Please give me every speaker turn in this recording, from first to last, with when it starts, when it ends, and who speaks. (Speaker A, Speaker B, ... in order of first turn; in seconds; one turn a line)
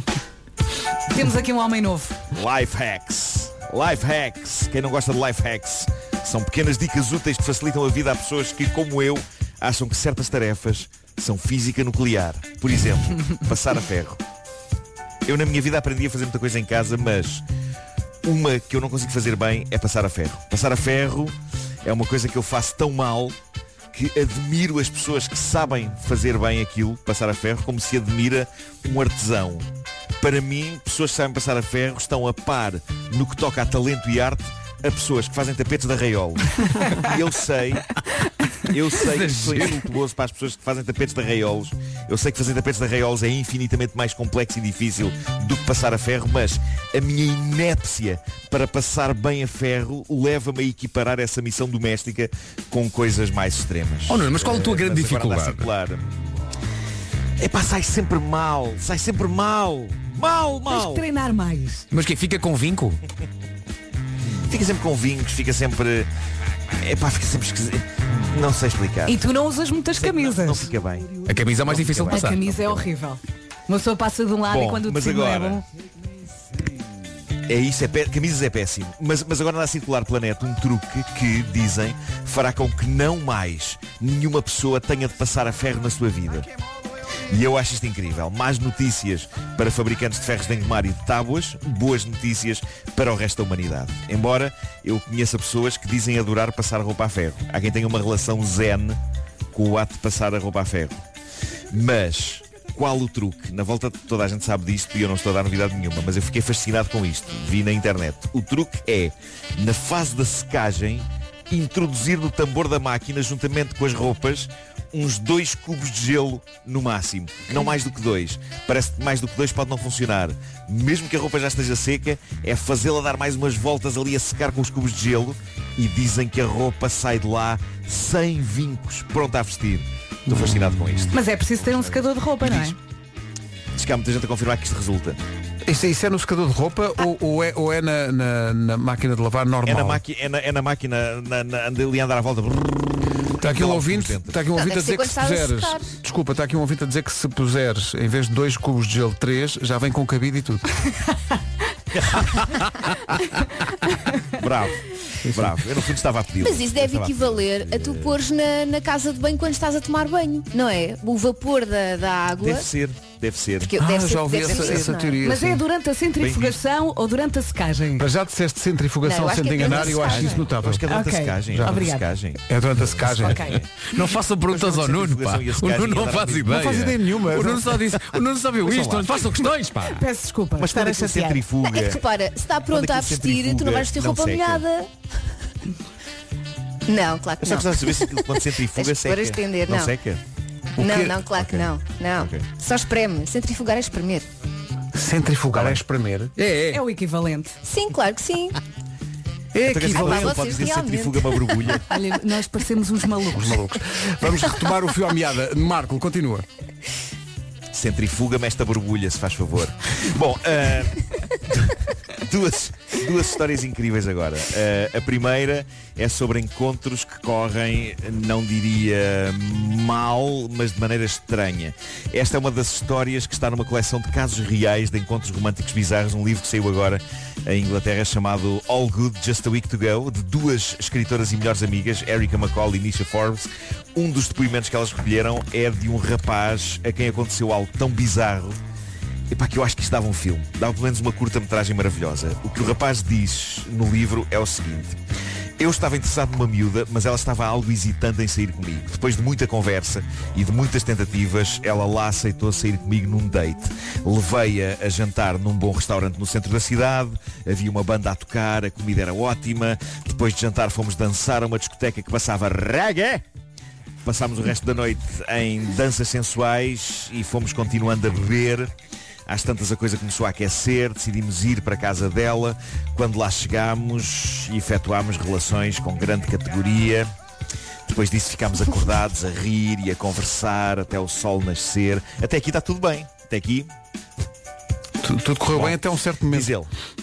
Speaker A: 1.1-2.2
Speaker B: 2.3-14.2
Speaker B: 15.3-17.4
Speaker B: 18.2-23.4
Speaker B: 23.9-29.7
Speaker B: 30.2-37.9
Speaker B: 38.7-56.1
Speaker C: 39.0-39.9
Speaker C: 54.1-55.7
Speaker B: 57.4-61.1
Speaker A: 60.7-61.9
Speaker C: 61.9-63.0
Speaker B: 64.5-66.1
Speaker B: 66.8-69.2
Speaker A: 69.1-70.7
Speaker B: 70.0-72.9
Speaker C: 71.3-72.5
Speaker A: 72.1-75.6
Speaker B: 74.5-75.6
Speaker B: 77.5-86.5
Speaker B: 87.3-99.0
Speaker B: 99.5-101.0
Speaker B: 101.7-132.8
Speaker D: 130.3-130.6
Speaker A: 131.1-132.8
Speaker B: 133.8-135.2
Speaker D: 135.7-140.0
Speaker B: 139.7-142.9
Speaker B: 143.4-144.4
Speaker D: 143.4-150.7
Speaker E: 144.5-145.9
Speaker B: 151.9-153.5
Speaker B: 154.2-158.2
Speaker D: 155.2-155.6
Speaker E: 156.4-162.7
Speaker B: 162.4-163.7
Speaker E: 163.6-165.2
Speaker D: 163.8-165.6
Speaker B: 164.4-164.8
Speaker A: 165.2-168.1
Speaker B: 166.2-166.6
Speaker D: 168.0-170.9
Speaker E: 169.0-170.5
Speaker B: 169.6-173.7
Speaker A: 170.9-172.1
Speaker D: 171.5-171.8
Speaker D: 172.5-173.5
Speaker A: 173.2-173.6
Speaker C: 173.9-180.0
Speaker B: 174.5-176.5
Speaker D: 176.5-177.8
Speaker B: 178.2-179.1
Speaker A: 179.9-181.4
Speaker B: 180.6-182.0
Speaker E: 181.7-184.9
Speaker B: 182.7-184.6
Speaker E: 186.9-189.9
Speaker B: 187.4-190.2
Speaker D: 190.8-191.2
Speaker E: 190.8-194.3
Speaker B: 191.3-192.5
Speaker D: 194.9-196.3
Speaker C: 196.4-196.8
Speaker A: 196.7-197.6
Speaker E: 197.6-198.6
Speaker D: 199.5-200.5
Speaker B: 199.6-201.8
Speaker E: 199.7-201.8
Speaker A: 201.9-203.6
Speaker D: 203.3-206.5
Speaker B: 207.7-238.6
Speaker B: 239.3-245.0
Speaker B: 245.6-263.2
Speaker B: 264.0-268.7
Speaker B: 269.3-277.1
Speaker B: 277.9-283.7
Speaker D: 285.0-286.5
Speaker B: 285.5-286.7